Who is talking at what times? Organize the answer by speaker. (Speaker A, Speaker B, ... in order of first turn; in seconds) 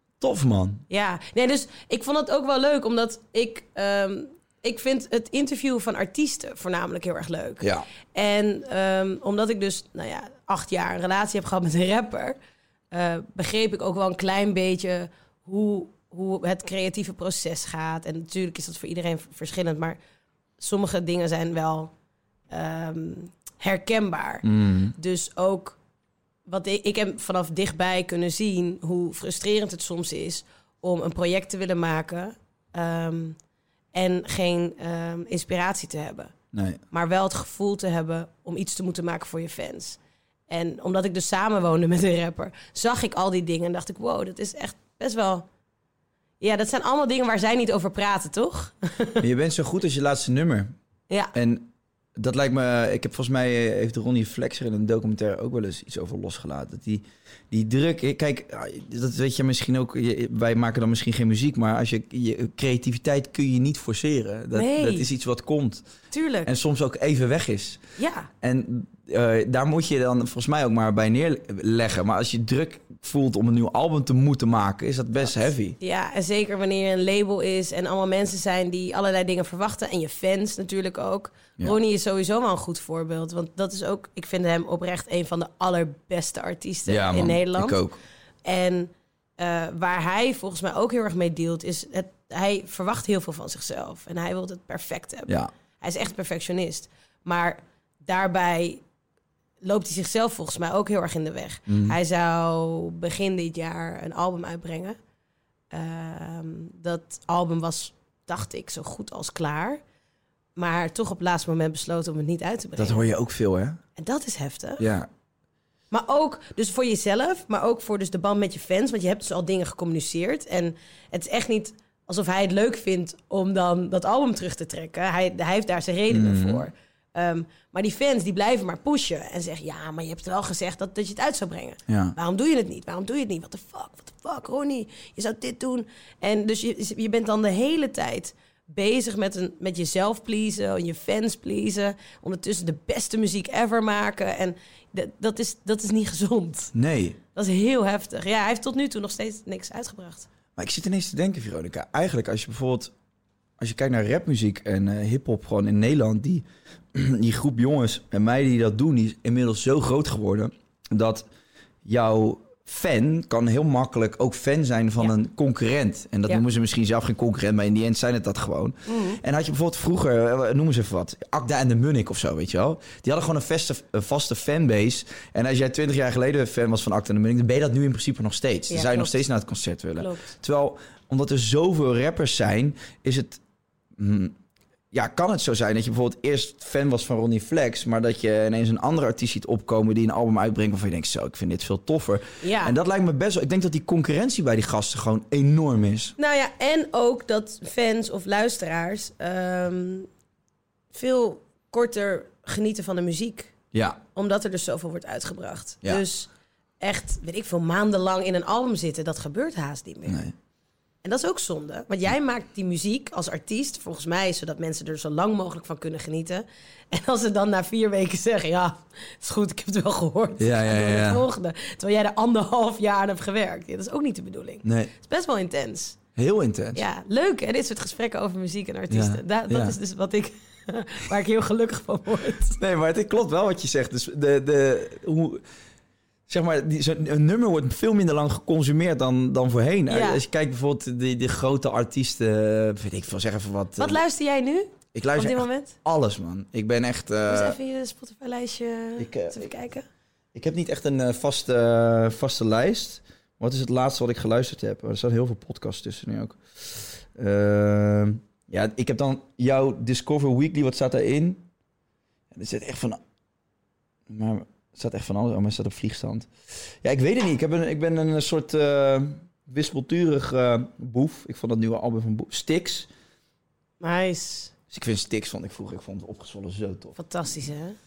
Speaker A: 0.2-0.8, 24.4-25.0, 36.5-36.8, 49.2-50.8, 51.3-65.9, 66.4-67.8, 68.4-75.8, 86.9-88.0, 101.7-102.0, 112.8-113.8, 114.8-115.1, 126.1-126.7, 131.9-132.2, 146.7-147.2, 150.6-152.9, 153.6-161.3, 161.8-183.4, 184.0-184.4, 184.9-196.2, 203.7-204.0, 210.1-210.3, 220.4-221.3, 224.6-224.9, 226.2-226.8, 228.9-229.8, 232.6-235.4, 236.3-244.0, 244.9-247.6, 249.0-249.5, 250.3-261.4, 262.3-263.0, 264.1-266.3, 266.8-272.9, 274.7-277.0
Speaker B: 0.9-12.4, 12.9-20.0, 20.6-21.9, 22.5-25.8, 26.5-33.4, 33.9-36.3, 36.9-45.4, 46.4-49.2, 64.5-65.1, 66.1-66.5, 68.0-68.3, 75.8-87.8, 88.4-98.8, 99.6-105.0, 105.7-109.8, 110.5-113.1, 114.0-114.9, 115.9-146.7, 147.3-150.3, 168.9-169.2, 178.7-179.2, 180.0-180.3, 192.4-192.8, 196.2-200.1, 200.9-203.5, 204.1-206.3, 206.8-210.2, 211.0-226.0, 226.8-232.6, 239.9-240.2, 243.8-245.8, 247.3-249.8, 273.8-274.5, 277.0-277.8